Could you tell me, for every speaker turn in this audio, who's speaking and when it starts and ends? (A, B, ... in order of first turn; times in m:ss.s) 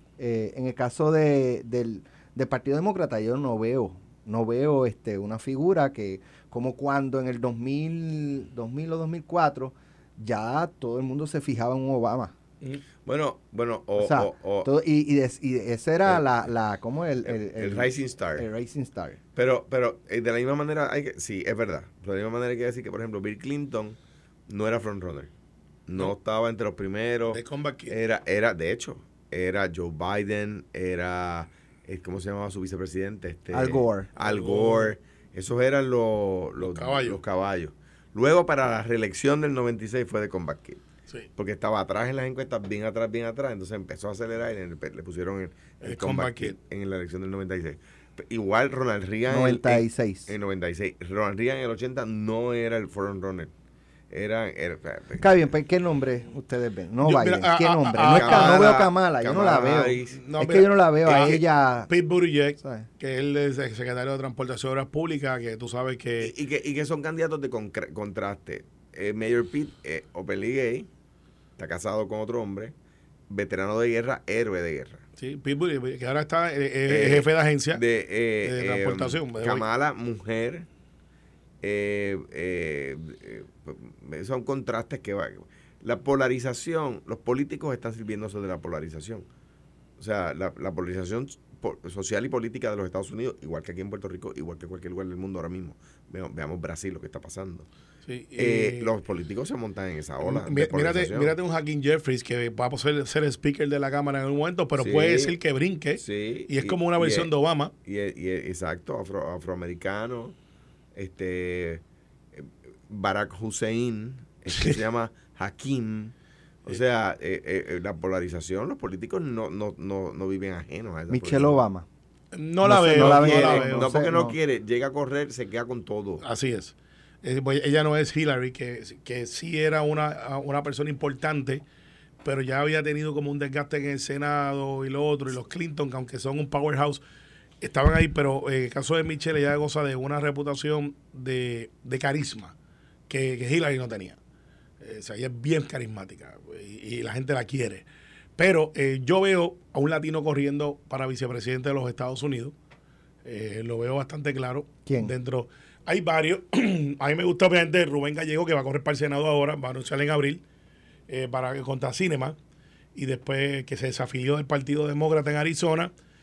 0:00.2-0:12.3 A
0:13.0-0:14.7 B
0:14.0-0:19.2 A
0:17.2-0:18.4 B
0:19.4-0:24.0 B
0:24.5-0:25.3 B
0:25.9-0:40.8 B
0:27.3-0:28.0 C
0:33.5-0:34.1 A
0:34.2-0:34.9 C
0:36.6-0:37.2 C
0:41.4-0:53.5 B
0:45.8-0:46.6 C
0:49.3-0:50.3 A
0:54.1-0:55.4 B
0:55.2-1:01.9 A
0:57.0-0:58.7 C
0:58.0-1:00.2 B
1:00.2-1:06.3 C
1:02.6-1:02.9 A
1:06.2-1:10.9 B
1:11.6-1:12.7 B
1:13.3-1:15.0 B
1:15.2-1:17.8 C
1:16.9-1:20.7 B
1:18.4-1:19.6 C
1:21.6-1:29.2 B
1:30.0-1:37.7 B
1:38.0-1:38.9 C
1:38.4-1:41.3 B
1:40.2-1:47.7 C
1:44.8-1:45.3 B
1:46.0-1:47.3 B
1:47.8-1:50.3 B
1:50.9-1:51.8 B
1:52.3-1:56.1 B
1:56.6-2:01.6 B
2:01.1-2:01.8 A
2:02.3-2:03.9 C
2:02.6-2:04.4 A
2:02.9-2:06.2 B
2:06.2-2:11.6 C
2:12.2-2:17.0 C
2:17.6-2:22.5 C
2:23.1-2:24.2 C
2:24.8-2:27.8 C
2:28.4-2:32.5 C
2:33.2-2:40.4 C
2:34.8-2:35.1 A
2:41.1-2:42.4 C
2:42.9-2:45.9 C